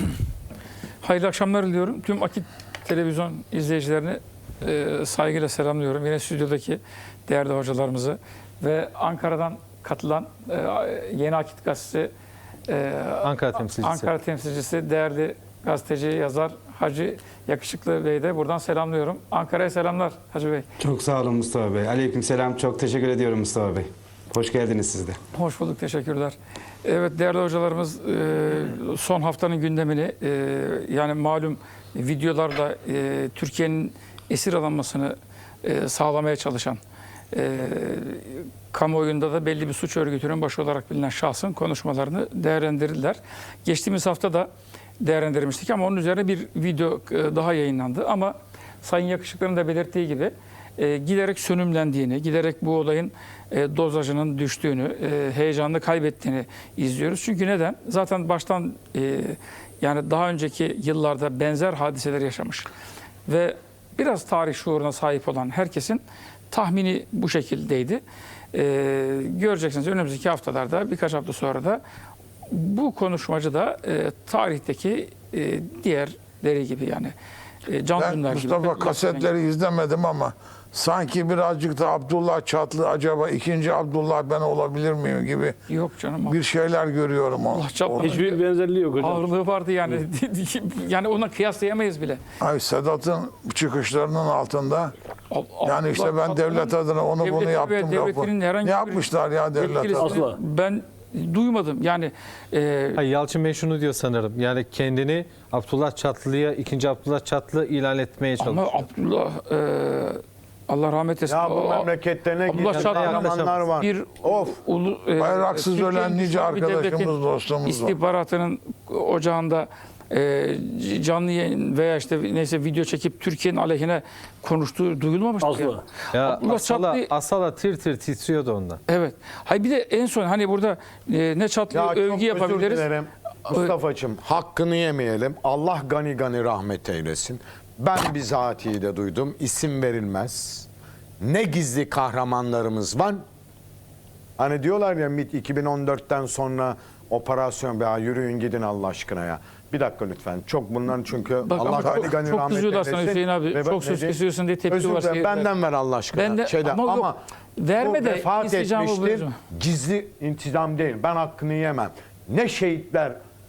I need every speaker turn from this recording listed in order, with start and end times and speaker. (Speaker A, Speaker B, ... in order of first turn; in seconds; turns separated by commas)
Speaker A: 1.0-12.1, Speaker A: 12.7-20.7, Speaker B: 13.2-14.1, Speaker C: 20.8-25.2, Speaker A: 25.3-36.8, Speaker A: 37.3-44.5, Speaker A: 45.0-62.7, Speaker A: 63.3-68.0, Speaker A: 68.5-71.8, Speaker A: 72.5-77.1, Speaker A: 77.7-79.3, Speaker D: 78.0-85.6, Speaker A: 85.7-86.4, Speaker D: 86.2-88.2, Speaker A: 87.5-88.4, Speaker E: 88.0-89.2, Speaker A: 89.0-92.2, Speaker D: 92.4-94.9, Speaker A: 95.3-103.0, Speaker D: 95.6-100.2, Speaker E: 100.0-100.4, Speaker B: 103.0-108.8, Speaker A: 108.4-111.9, Speaker F: 111.3-114.6, Speaker A: 112.5-117.1, Speaker B: 112.7-113.7, Speaker D: 115.2-118.0, Speaker A: 117.7-127.1, Speaker E: 125.4-125.8, Speaker B: 126.1-128.8, Speaker A: 128.9-132.9, Speaker F: 131.7-140.7, Speaker F: 141.2-143.2, Speaker F: 144.4-154.2, Speaker A: 151.5-155.5, Speaker F: 154.7-157.2, Speaker A: 156.1-159.4, Speaker F: 157.8-163.2